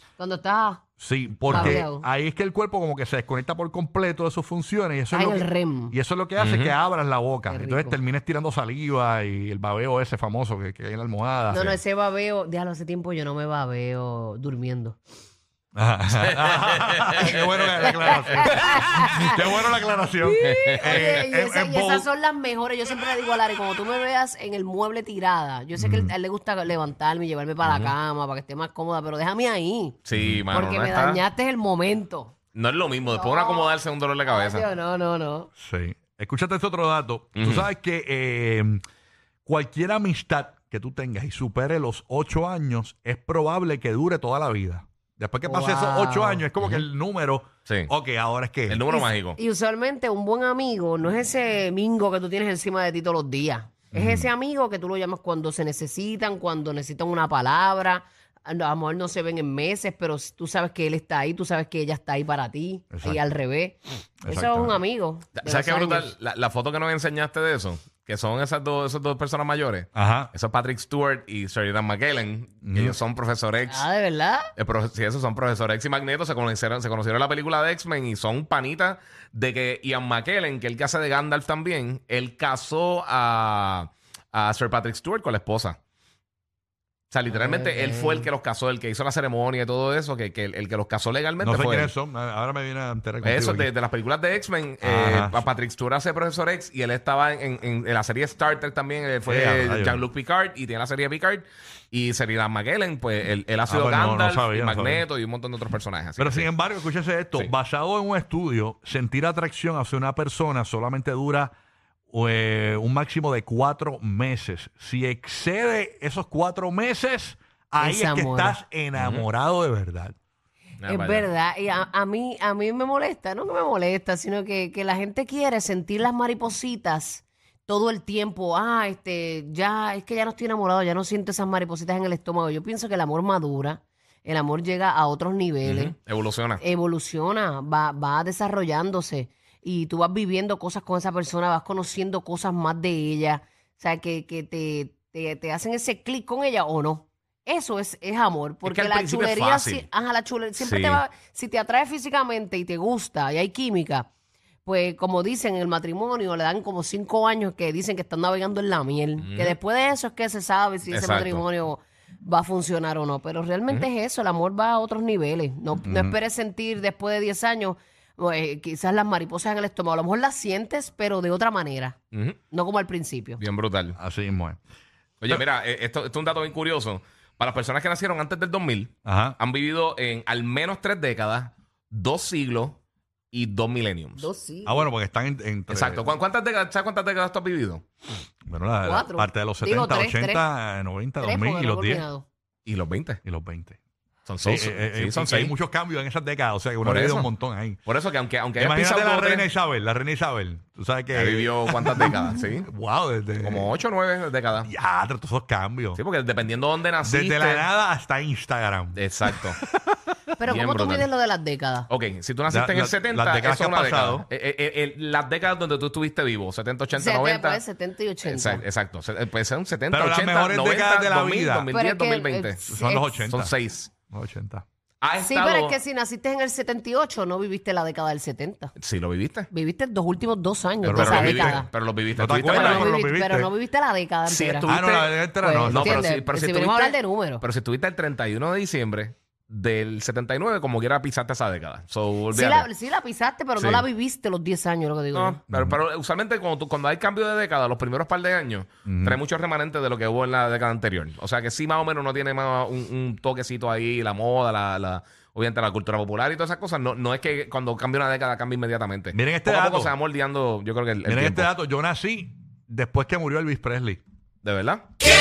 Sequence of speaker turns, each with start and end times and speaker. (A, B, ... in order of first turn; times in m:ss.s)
0:00.2-0:00.8 A
0:01.0-0:11.8 B
0:01.5-0:02.0 A
0:01.5-0:01.8 C
0:05.1-0:05.9 A
0:06.4-0:06.7 C
0:07.5-0:08.0 A
0:11.5-0:15.0 A
0:15.7-0:22.0 B
0:16.2-0:17.4 C
0:18.0-0:19.4 A
0:18.4-0:18.7 C
0:20.2-0:30.0 A
0:20.4-0:21.0 C
0:25.8-0:26.1 B
0:27.6-0:27.9 C
0:30.0-0:31.2 C
0:30.1-0:30.4 B
0:30.5-0:32.3 A
0:32.5-0:34.7 C
0:33.1-0:33.7 A
0:34.3-0:35.5 A
0:35.6-0:38.8 B
0:37.4-0:37.7 C
0:39.4-0:48.8 B
0:45.4-0:46.4 A
0:46.6-0:46.8 C
0:48.7-0:49.4 C
0:48.9-1:06.1 A
0:53.9-0:54.3 B
1:02.9-1:03.2 B
1:04.2-1:04.8 B
1:05.4-1:13.8 C
1:09.9-1:10.3 B
1:12.6-1:13.0 B
1:13.7-1:14.5 A
1:14.5-1:25.8 C
1:27.1-1:31.9 C
1:27.3-1:28.3 A
1:31.4-1:33.7 B
1:33.2-1:46.5 C
1:34.8-1:35.4 B
1:39.2-1:40.0 B
1:43.7-1:45.0 B
1:46.2-1:51.5 B
1:52.1-2:00.1 B
1:57.8-1:58.6 A
1:59.0-1:59.2 C
2:00.8-2:01.3 C
2:00.8-2:15.9 A
2:15.6-2:16.6 C
2:16.6-2:34.1 A
2:28.6-2:29.9 C
2:30.6-2:31.0 C
2:34.6-2:52.0 A
2:39.2-2:39.6 C
2:40.9-2:41.4 C
2:45.8-2:46.2 B
2:52.1-2:52.4 C
2:52.5-2:53.4 A
2:53.4-2:54.0 C
2:54.0-2:54.6 B
2:55.2-3:02.8 C
2:59.0-2:59.4 B
3:03.3-3:04.3 C
3:04.2-3:04.9 A
3:04.6-3:06.1 B
3:05.7-3:07.8 C
3:08.5-3:12.0 B
3:08.8-3:10.5 A
3:11.2-3:12.3 A
3:12.6-3:13.2 C
3:13.2-3:13.8 B
3:14.2-3:15.5 C
3:14.4-3:17.8 B
3:16.8-3:17.3 C
3:17.8-3:19.5 C
3:18.6-3:23.7 B
3:21.1-3:22.7 C
3:23.4-3:24.7 C
3:24.6-3:26.0 B
3:25.9-3:27.6 C
3:27.0-3:30.1 B
3:28.9-3:29.6 C
3:30.4-3:31.9 A
3:30.4-3:31.1 C
3:31.9-3:37.6 C
3:32.5-3:34.2 B
3:36.9-3:38.6 A
3:38.2-3:42.6 C
3:39.9-3:41.7 B
3:41.7-3:43.2 A
3:42.6-3:43.5 B
3:43.3-3:43.9 C
3:44.1-3:44.6 B
3:45.0-3:45.8 C
3:45.2-3:48.7 A
3:48.8-3:49.5 C
3:49.5-3:51.7 A
3:50.8-3:53.5 B
3:50.8-3:52.9 C
3:52.4-3:54.8 A
3:54.2-4:02.7 C
3:54.7-3:56.1 B
3:55.4-3:57.4 A
4:02.3-4:05.4 A
4:03.6-4:03.9 C
4:05.1-4:21.5 C
4:05.5-4:05.8 B
4:08.8-4:09.2 B
4:19.1-4:19.9 B
4:21.0-4:24.0 B
4:24.4-4:24.9 C